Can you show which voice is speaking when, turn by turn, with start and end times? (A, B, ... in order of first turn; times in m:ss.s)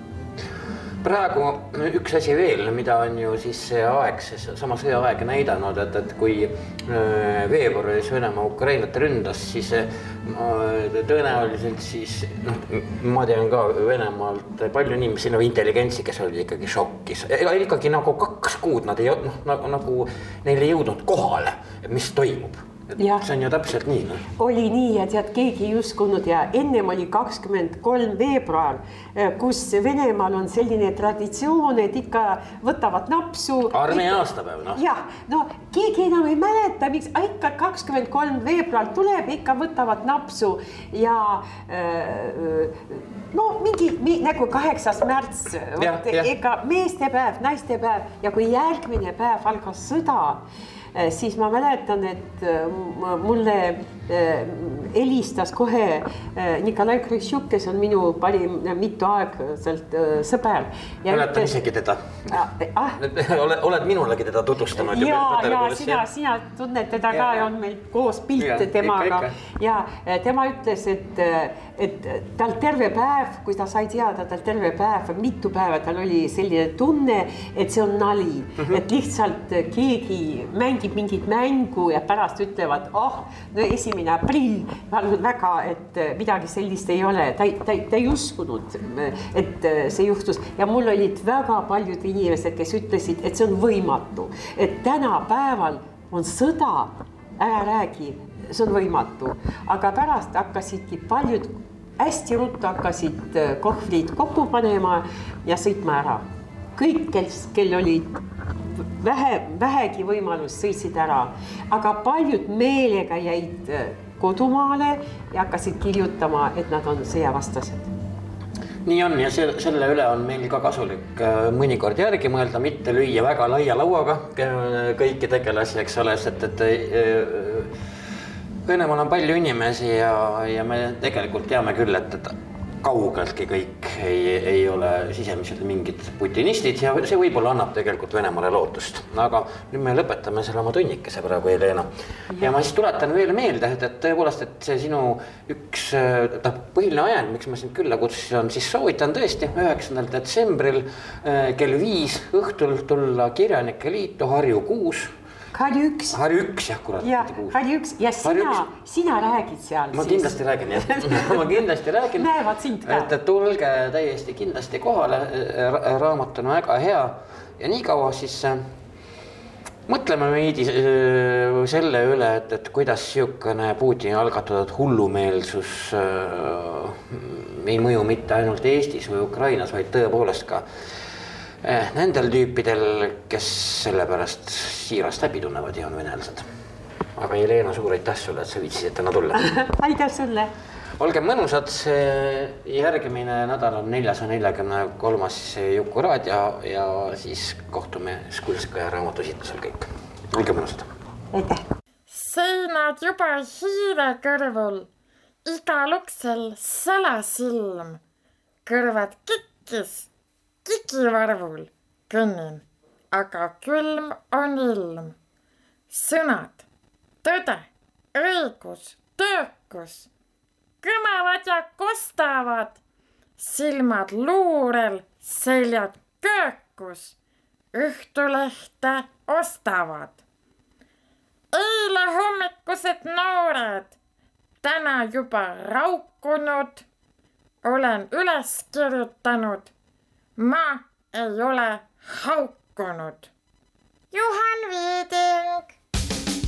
0:01.0-0:24.2 A
0:23.0-0:23.2 B
0:24.4-0:50.4 B
0:33.7-0:34.8 A
0:45.8-0:46.3 A
0:50.9-1:01.5 B
1:01.1-1:02.4 A
1:02.3-1:03.0 B
1:03.0-1:06.0 A
1:04.8-1:46.2 B
1:07.1-1:07.5 A
1:08.4-1:09.3 A
1:46.8-1:48.2 B
1:48.7-1:57.9 B
1:58.8-2:07.7 A
2:08.6-2:35.1 A
2:35.5-2:36.2 B
2:36.1-2:37.6 A
2:37.0-2:41.4 B
2:38.2-2:38.6 A
2:39.9-2:42.3 A
2:42.2-2:43.1 B
2:42.8-2:48.6 A
2:49.9-3:00.6 A
3:01.6-3:06.4 A
3:07.2-3:09.4 A
3:09.3-3:10.5 B
3:11.0-3:20.9 A
3:21.3-3:21.6 B
3:22.1-3:24.9 C
3:25.4-3:28.0 C
3:28.6-3:30.1 C
3:30.6-3:35.1 C
3:35.9-3:36.6 C
3:37.2-3:40.1 C
3:40.8-3:42.8 C
3:43.4-3:47.2 C
3:47.7-3:50.2 C
3:51.5-3:53.9 C
3:54.6-3:56.8 C
3:57.6-3:59.7 C
4:00.4-4:03.3 C
4:04.1-4:05.7 C